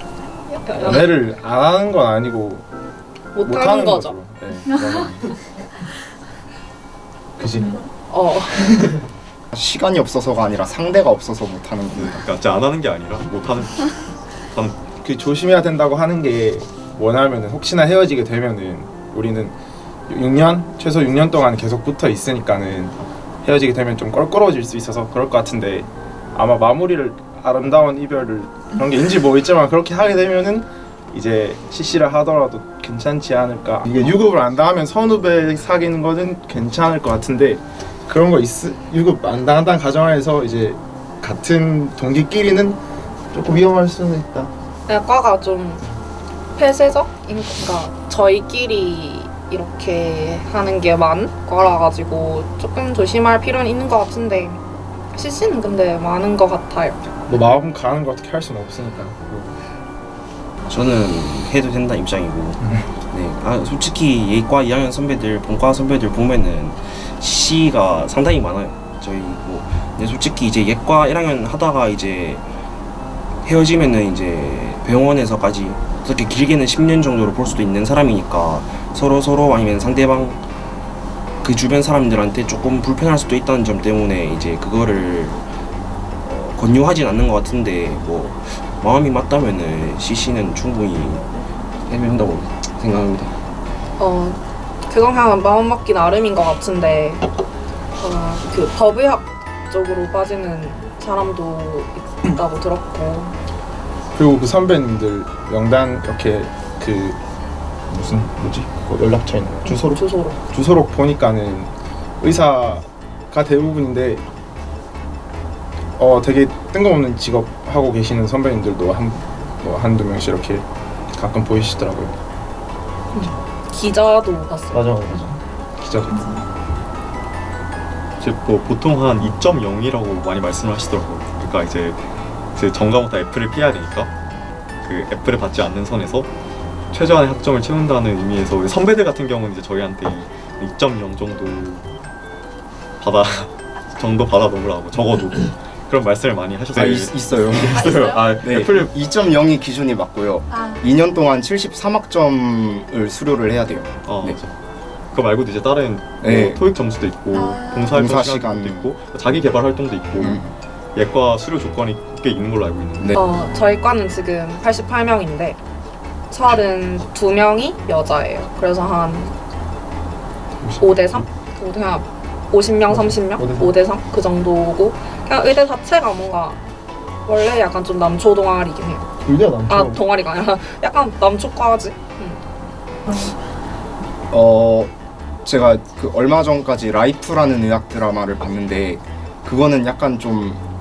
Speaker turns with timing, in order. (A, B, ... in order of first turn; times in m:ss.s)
0:00.5-0:01.0 A
0:00.7-0:02.6 B
0:03.3-0:04.2 A
0:03.4-0:05.3 B
0:07.4-0:07.8 B
0:08.1-0:08.7 A
0:09.5-0:12.2 C
0:12.0-0:14.0 D
0:14.5-0:14.8 D
0:15.0-0:19.5 B
0:20.1-0:42.8 B
0:43.3-0:44.5 B
0:44.9-0:45.8 A
0:46.6-0:54.6 A
0:55.1-0:57.1 A
0:57.3-0:59.5 B
1:00.6-1:12.5 E
1:13.4-1:20.5 E
1:21.4-1:25.5 E
1:26.2-1:31.3 E
1:31.8-1:33.3 E
1:34.0-1:37.3 A
1:38.0-1:43.3 A
1:44.1-1:47.2 B
1:47.9-1:54.2 B
1:49.6-1:50.4 A
1:56.0-2:02.1 B
2:03.1-2:04.8 A
2:04.7-2:06.4 B
2:08.2-2:12.0 D
2:12.5-2:14.1 D
2:14.8-2:16.3 D
2:16.9-2:21.8 D
2:23.0-2:28.9 D
2:26.7-2:34.4 C
2:34.0-2:34.5 D
2:35.1-2:40.4 D
2:36.2-2:36.6 C
2:37.9-2:38.9 C
2:40.2-2:40.5 C
2:40.9-2:43.2 D
2:43.1-2:45.6 A
2:46.3-2:49.3 A
2:50.6-2:51.2 B
2:50.8-2:56.6 A
2:52.9-2:53.7 B
2:57.2-2:59.1 A
2:59.2-3:00.0 B
2:59.6-3:02.4 A
3:04.3-3:04.9 C
3:05.4-3:10.6 C